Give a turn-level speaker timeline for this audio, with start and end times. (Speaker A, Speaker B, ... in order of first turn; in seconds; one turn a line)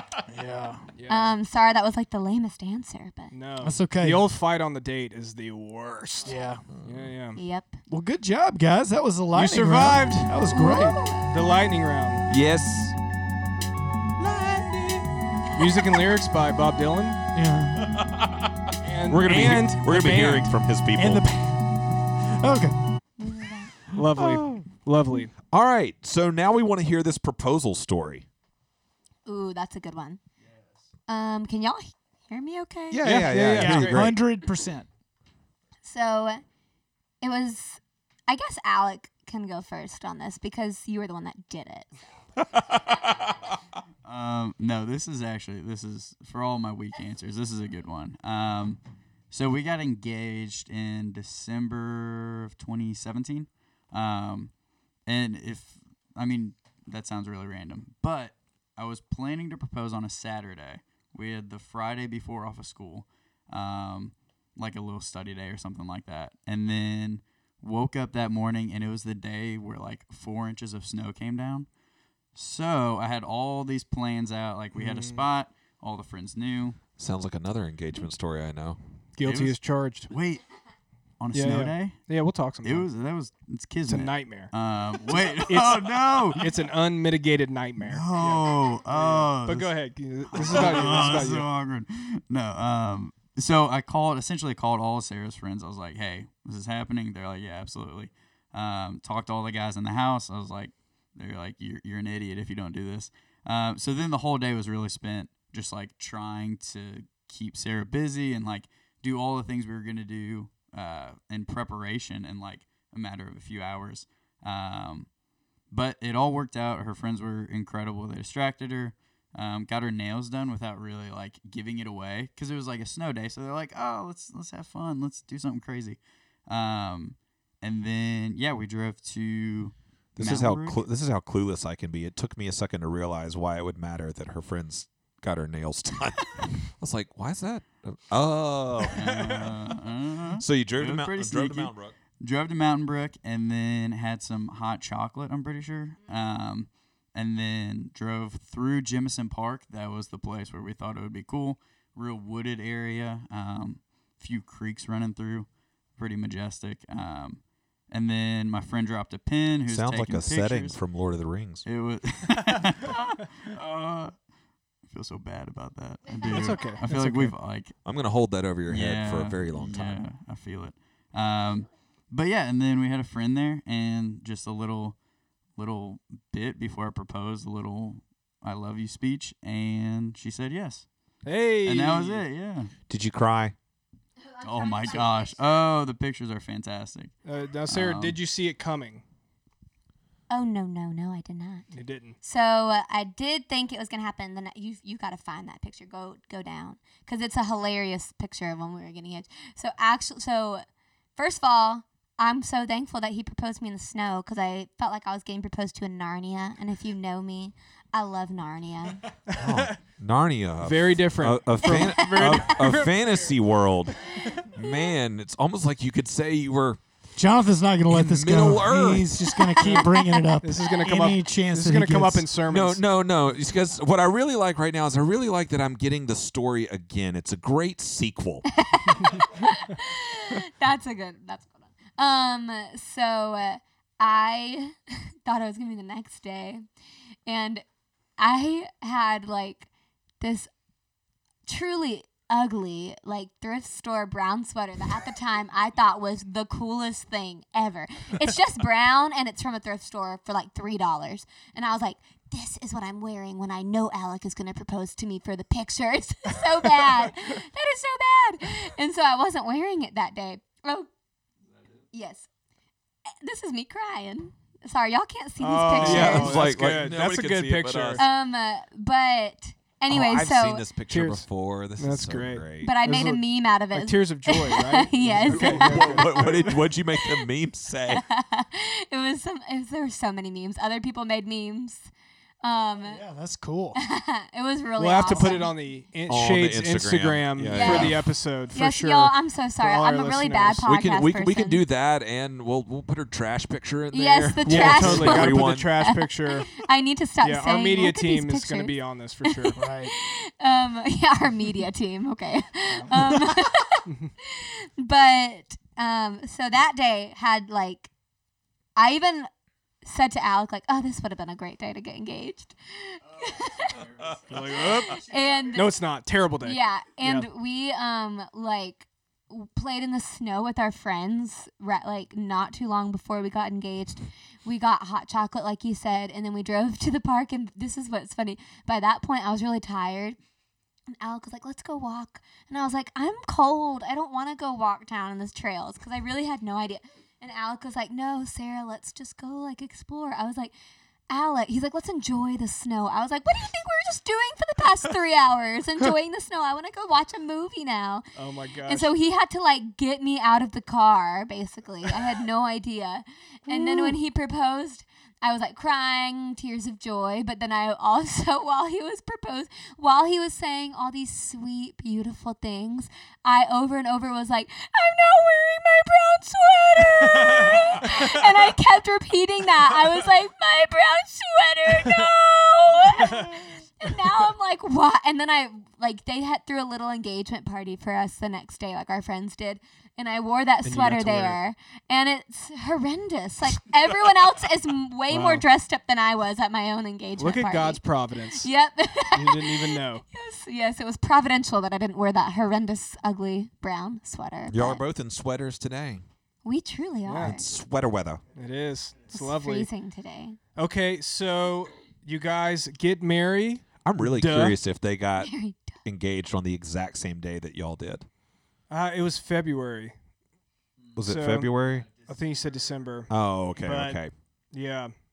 Speaker A: 0.3-0.9
Speaker B: 0.9-1.3
Speaker C: 1.1-3.3
Speaker B: 3.3-7.4
Speaker A: 3.6-4.2
Speaker A: 6.2-6.7
Speaker D: 6.7-7.1
Speaker C: 7.3-7.8
Speaker A: 7.9-11.1
Speaker B: 9.3-10.4
Speaker C: 10.5-11.3
Speaker B: 11.1-12.2
Speaker D: 12.3-12.9
Speaker D: 14.2-15.1
Speaker B: 15.5-17.2
Speaker A: 17.3-17.9
Speaker D: 17.8-21.3
Speaker B: 18.8-20.4
Speaker A: 21.0-22.8
Speaker C: 23.2-23.7
Speaker B: 23.9-25.3
Speaker D: 24.1-24.7
Speaker D: 25.4-28.3
Speaker C: 29.2-30.2
Speaker C: 31.1-33.1
Speaker D: 32.9-34.2
Speaker B: 33.0-34.1
Speaker A: 33.3-34.9
Speaker C: 35.8-36.4
Speaker C: 37.2-41.9
Speaker D: 42.5-43.3
Speaker E: 44.0-71.7
Speaker E: 72.3-76.8
Speaker B: 74.7-75.2
Speaker D: 77.0-78.8
Speaker B: 79.2-80.1
Speaker E: 79.2-80.6
Speaker E: 81.2-86.5
Speaker B: 81.3-82.9
Speaker B: 83.8-84.5
Speaker B: 85.5-91.5
Speaker E: 87.8-130.8
Speaker D: 130.2-139.0
Speaker E: 138.9-160.9
Speaker D: 140.4-141.9
Speaker D: 159.7-161.7
Speaker E: 161.6-164.3
Speaker E: 164.8-167.8
Speaker B: 166.2-167.3
Speaker D: 167.8-170.0
Speaker E: 168.7-182.7
Speaker B: 181.2-182.2
Speaker D: 182.9-183.5
Speaker E: 184.4-188.2
Speaker C: 184.9-185.2
Speaker B: 187.2-189.0
Speaker C: 190.3-209.0
Speaker B: 191.7-192.2
Speaker B: 209.3-209.8
Speaker D: 209.4-216.8
Speaker B: 210.6-213.3
Speaker C: 211.7-212.5
Speaker A: 217.2-222.3
Speaker D: 217.9-219.1
Speaker C: 219.6-220.2
Speaker B: 220.4-222.8
Speaker D: 222.5-228.4
Speaker C: 228.6-236.6
Speaker C: 237.2-237.6
Speaker C: 238.2-239.7
Speaker C: 240.2-240.5
Speaker C: 241.4-260.9
Speaker C: 261.9-262.3
Speaker C: 263.2-266.5
Speaker B: 265.4-268.0
Speaker D: 265.8-268.0
Speaker C: 268.0-270.6
Speaker D: 269.9-272.7
Speaker B: 270.9-276.1
Speaker C: 272.6-276.4
Speaker A: 275.1-276.5
Speaker D: 275.2-278.0
Speaker C: 276.9-277.2
Speaker C: 277.9-281.9
Speaker C: 282.4-283.0
Speaker A: 282.8-283.8
Speaker C: 283.8-285.5
Speaker B: 284.8-290.7
Speaker D: 286.1-288.1
Speaker C: 287.5-291.6
Speaker D: 290.6-295.8
Speaker C: 293.9-307.9
Speaker B: 294.4-296.5
Speaker B: 297.2-299.7
Speaker A: 299.6-299.9
Speaker A: 302.7-303.3
Speaker C: 308.8-309.3
Speaker C: 309.8-313.8
Speaker B: 314.3-317.3
Speaker C: 314.6-315.7
Speaker C: 316.4-330.2
Speaker C: 330.9-340.5
Speaker C: 341.1-348.1
Speaker B: 348.1-348.9
Speaker C: 348.6-394.8
Speaker B: 380.6-381.4
Speaker B: 385.1-385.4
Speaker B: 387.2-388.5
Speaker B: 389.1-390.0
Speaker D: 394.5-396.0
Speaker C: 396.4-397.4
Speaker B: 397.0-397.4
Speaker D: 397.2-398.2
Speaker B: 398.3-399.7
Speaker C: 399.1-400.4
Speaker B: 400.6-404.6
Speaker D: 403.8-408.1
Speaker C: 405.2-405.8
Speaker B: 408.7-410.0
Speaker D: 410.9-411.9
Speaker B: 411.0-414.9
Speaker D: 413.1-414.1